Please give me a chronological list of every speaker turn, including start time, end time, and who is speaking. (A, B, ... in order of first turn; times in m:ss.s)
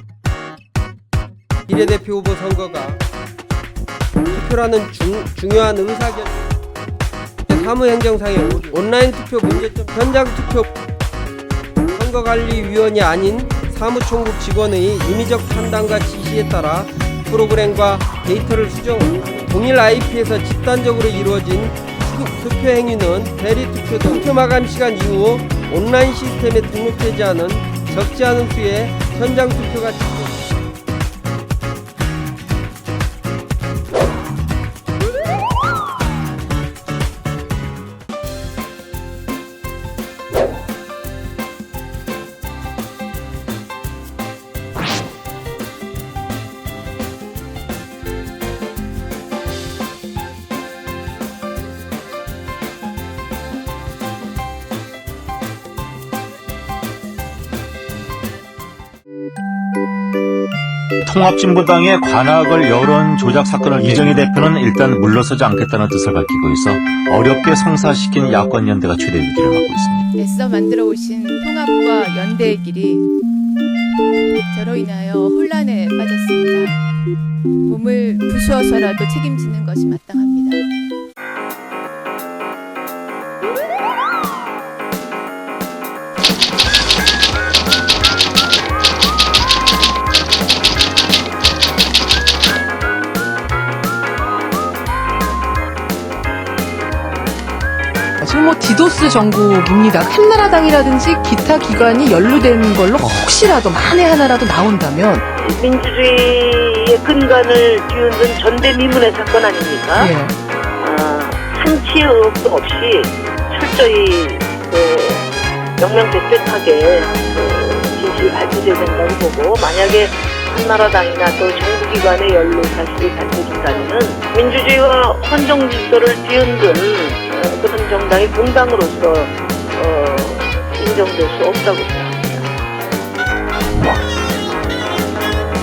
0:01.7-0:03.0 A
0:04.3-0:06.3 A
0:07.5-0:10.7 A
0:11.9-0:30.4 A
1:01.0-1:10.1 B
1:10.1-1:13.1 C
1:14.5-1:16.8 C
1:17.6-1:20.6 C
1:38.2-1:45.2 D
1:45.4-1:50.0 E
1:49.9-1:50.3 D
1:50.8-1:55.2 E
1:55.8-2:12.5 E